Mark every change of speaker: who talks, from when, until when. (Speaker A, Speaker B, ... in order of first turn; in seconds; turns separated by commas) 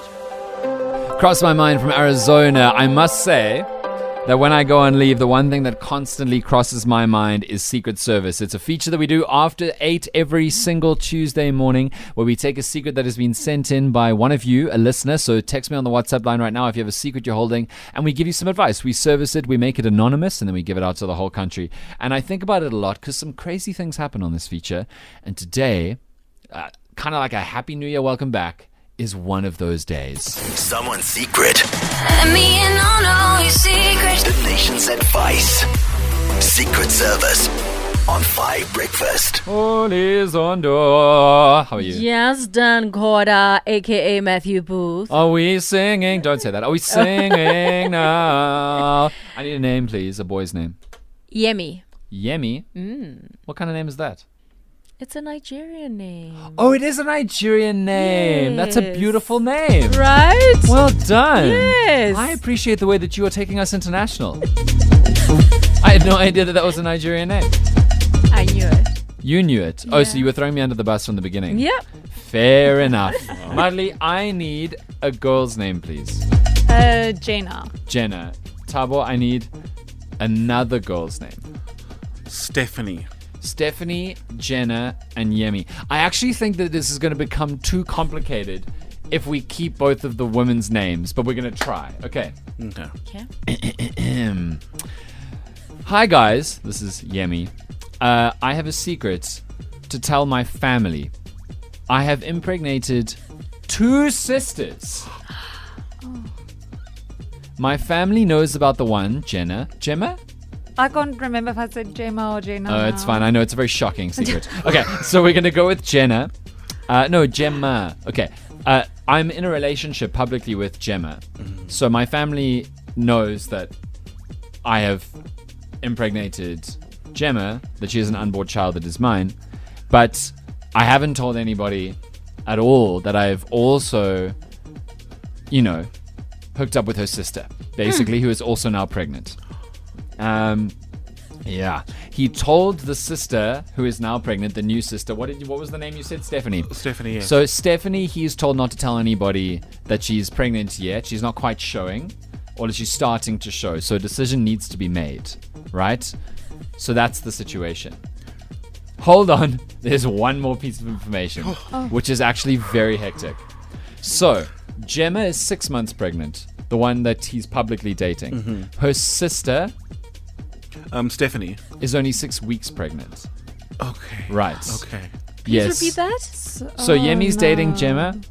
Speaker A: 1.2-3.7, Speaker A: 4.2-26.0, Speaker A: 26.5-30.4, Speaker B: 30.5-31.7, Speaker C: 32.0-34.3, Speaker B: 34.2-35.7, Speaker B: 36.4-37.5, Speaker B: 38.1-39.4, Speaker A: 39.5-42.0, Speaker D: 41.8-45.1, Speaker A: 45.1-50.8, Speaker D: 46.9-48.1, Speaker D: 51.3-51.9, Speaker A: 52.1-52.7, Speaker D: 52.8-53.4, Speaker A: 53.5-54.2, Speaker D: 55.0-56.6, Speaker A: 56.5-60.0, Speaker D: 57.9-59.1, Speaker D: 59.9-60.8, Speaker A: 60.7-64.4, Speaker D: 61.4-62.4, Speaker A: 65.8-67.5, Speaker D: 68.3-69.0, Speaker A: 69.2-76.2, Speaker D: 69.9-70.3, Speaker D: 71.5-71.8, Speaker E: 73.4-73.6, Speaker F: 76.7-77.7, Speaker A: 77.9-79.5, Speaker A: 80.2-81.5, Speaker E: 82.3-83.1, Speaker A: 83.4-92.3, Speaker E: 92.6-92.9, Speaker A: 93.5-94.6, Speaker A: 95.8-101.1, Speaker A: 101.9-105.1, Speaker F: 106.0-106.3, Speaker A: 107.6-110.2, Speaker F: 110.8-113.3, Speaker A: 112.7-116.3, Speaker A: 116.9-123.7, Speaker A: 124.6-125.1, Speaker A: 125.8-129.3, Speaker A: 129.9-134.3, Speaker A: 135.5-135.9, Speaker A: 136.6-139.4, Speaker A: 140.2-140.7, Speaker A: 141.4-156.2, Speaker E: 146.8-147.4, Speaker A: 156.8-158.0, Speaker A: 159.0-163.4, Speaker A: 164.0-169.7, Speaker E: 168.3-168.7, Speaker E: 170.9-171.6, Speaker A: 171.8-173.3, Speaker E: 173.8-175.1, Speaker A: 174.3-174.8, Speaker A: 175.5-176.0, Speaker D: 175.5-176.4, Speaker F: 176.4-178.2, Speaker A: 176.8-178.2